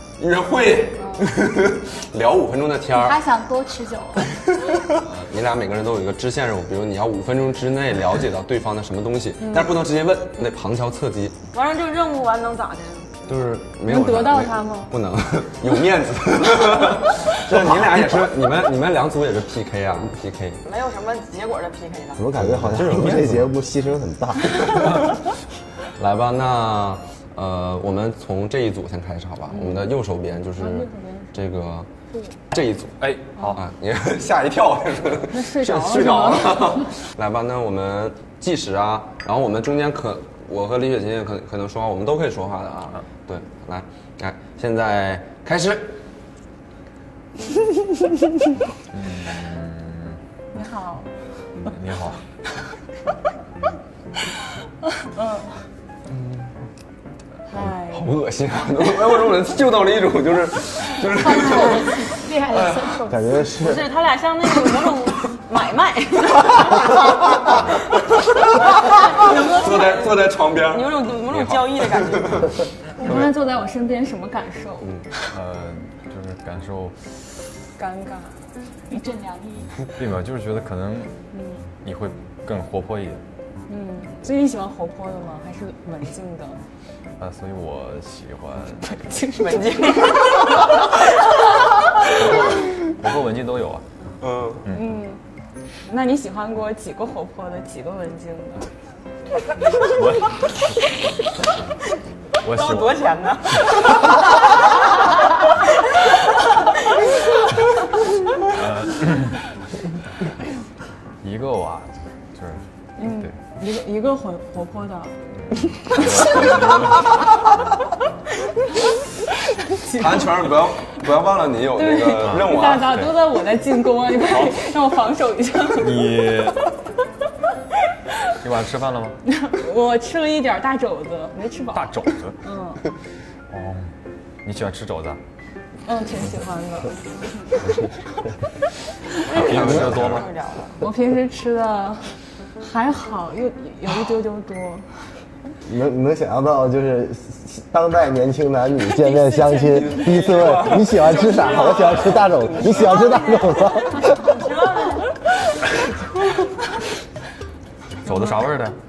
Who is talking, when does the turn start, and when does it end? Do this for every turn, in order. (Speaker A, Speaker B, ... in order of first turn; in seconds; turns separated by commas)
Speaker A: 0.2-3.2, Speaker B: 1.0-1.3, Speaker C: 2.9-4.3, Speaker A: 4.9-11.4, Speaker B: 9.4-9.7, Speaker D: 11.5-13.1, Speaker A: 13.3-20.6, Speaker B: 13.8-14.9, Speaker E: 17.5-18.1, Speaker D: 20.6-22.2, Speaker E: 22.1-25.1, Speaker A: 22.3-23.5, Speaker A: 26.0-31.9, Speaker B: 29.5-29.9, Speaker B: 30.6-31.4, Speaker A: 32.5-46.0, Speaker F: 33.0-33.6, Speaker B: 35.3-36.9, Speaker F: 48.9-50.2, Speaker B: 50.5-51.1, Speaker F: 51.6-52.2, Speaker B: 55.0-55.5, Speaker A: 56.1-56.5, Speaker B: 57.5-58.1, Speaker A: 57.9-62.8, Speaker C: 61.2-63.4, Speaker E: 63.1-63.9, Speaker D: 63.6-67.6, Speaker D: 68.6-72.5, Speaker A: 69.1-73.3, Speaker B: 73.0-74.9, Speaker A: 74.8-75.1, Speaker F: 75.3-77.0, Speaker B: 77.8-78.3, Speaker C: 78.9-79.7, Speaker F: 80.0-81.1, Speaker B: 81.3-81.6, Speaker F: 81.8-83.2, Speaker B: 83.7-86.6, Speaker F: 87.2-88.9, Speaker B: 88.8-90.2, Speaker D: 89.5-90.5, Speaker F: 92.1-93.8, Speaker A: 94.2-94.6, Speaker F: 94.7-95.0, Speaker B: 94.7-95.2, Speaker B: 95.9-98.7, Speaker F: 99.8-100.4, Speaker F: 102.4-103.0, Speaker D: 102.5-103.9, Speaker F: 108.4-109.4, Speaker F: 111.2-113.3, Speaker B: 113.0-115.1, Speaker B: 115.7-116.8, Speaker F: 115.7-117.6, Speaker B: 119.7-120.5, Speaker A: 120.0-123.0, Speaker B: 121.8-126.5, Speaker F: 122.2-123.1, Speaker F: 124.3-124.6, Speaker F: 125.8-126.6, Speaker F: 128.4-129.2, Speaker B: 129.3-132.8, Speaker F: 131.7-132.4, Speaker F: 133.5-133.9, Speaker F: 134.4-135.2, Speaker B: 135.9-137.0, Speaker F: 139.3-140.3, Speaker D: 139.3-140.8, Speaker A: 139.3-140.3, Speaker B: 140.8-144.8, Speaker E: 145.6-154.3, Speaker B: 149.0-150.1, Speaker A: 149.7-153.2, Speaker D: 154.0-155.1, Speaker F: 158.0-158.8, Speaker B: 158.1-158.4